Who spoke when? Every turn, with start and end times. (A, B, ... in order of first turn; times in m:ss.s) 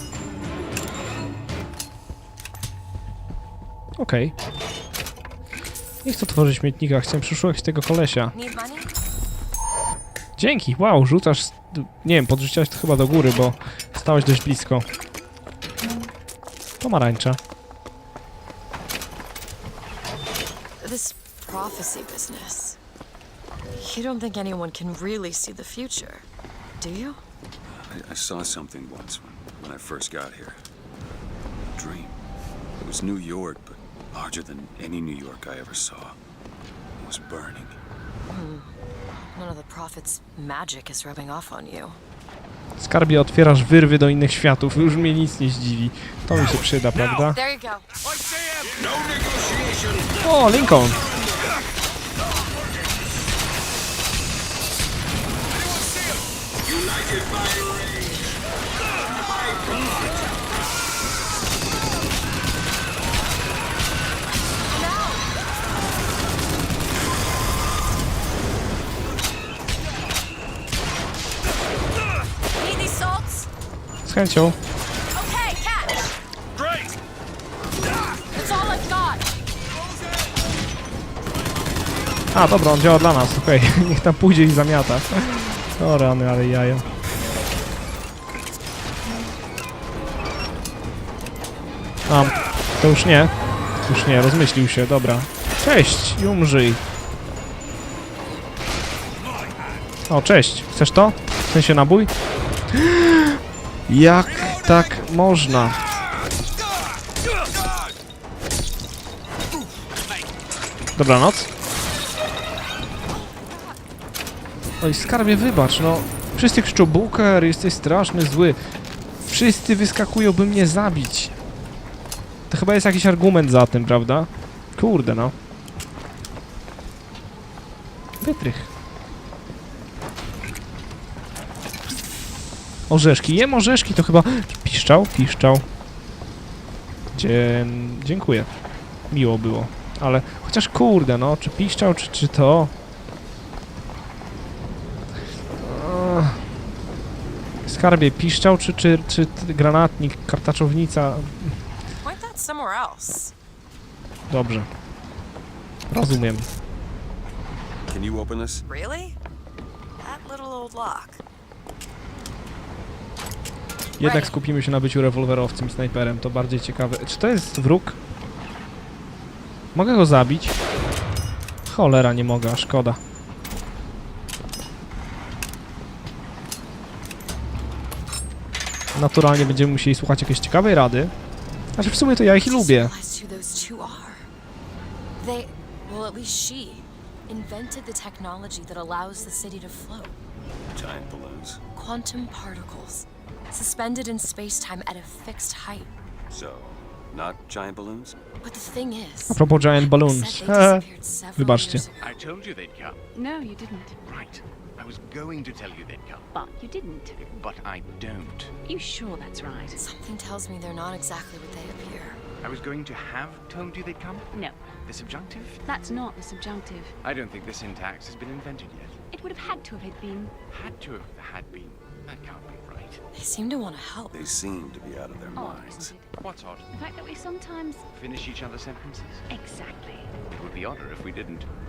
0:04.0-0:04.4 A
0:06.0-0:08.3 A
0:08.3-0:08.9 B
0:10.4-0:14.9 A
0:16.8-0:17.4 A
0:20.8-0:22.8 B
0:23.8-0:26.3 B
0:26.8-0:27.2 B
0:27.7-0:30.6 C
0:31.7-0:32.2 C
0:32.8-0:36.2 C
0:37.0-0:37.8 C
0:38.3-0:42.0 B
0:42.8-0:47.4 A
0:47.2-0:47.9 B
0:48.2-0:50.2 C
0:50.2-0:51.0 A
0:56.7-0:58.3 C
1:04.7-1:05.4 B
1:12.6-1:13.5 B
1:14.0-1:14.6 A
1:15.1-1:16.1 B
1:16.5-1:17.0 C
1:18.3-1:19.2 B
1:22.3-1:26.8 A
1:32.1-1:33.3 A
1:33.9-1:36.8 A
1:40.1-1:42.1 A
1:42.7-1:45.8 A
1:51.0-1:51.5 A
1:54.8-1:58.6 A
1:59.3-2:01.4 A
2:02.5-2:05.3 A
2:08.2-2:08.7 A
2:12.9-2:15.6 A
2:17.1-2:18.5 A
2:19.1-2:22.7 A
2:25.6-2:26.4 A
2:27.6-2:31.6 A
2:32.0-2:33.3 B
2:34.3-2:34.7 A
2:35.9-2:36.5 A
2:37.9-2:38.6 C
2:38.7-2:39.2 B
2:40.0-2:41.2 B
2:44.0-2:44.4 B
2:44.0-2:48.0 A
2:49.7-2:50.6 A
2:51.7-2:53.0 A
2:58.9-3:01.1 A
3:01.8-3:02.9 A
3:02.4-3:04.3 B
3:05.2-3:10.2 B
3:10.7-3:11.6 C
3:11.8-3:15.9 B
3:16.3-3:18.2 C
3:18.4-3:22.2 B
3:19.3-3:20.9 A
3:21.4-3:21.9 A
3:22.0-3:23.0 D
3:23.2-3:24.0 E
3:24.0-3:26.3 D
3:26.3-3:27.2 E
3:27.2-3:28.6 D
3:28.7-3:29.8 E
3:29.8-3:32.2 B
3:32.4-3:35.6 D
3:34.3-3:34.8 E
3:35.6-3:36.9 E
3:37.0-3:39.0 D
3:39.1-3:40.4 E
3:40.5-3:43.0 D
3:43.1-3:44.2 B
3:44.1-3:45.9 C
3:45.4-3:46.2 E
3:46.1-3:46.7 D
3:46.7-3:47.8 E
3:47.9-3:49.3 D
3:49.3-3:50.1 E
3:50.3-3:51.5 D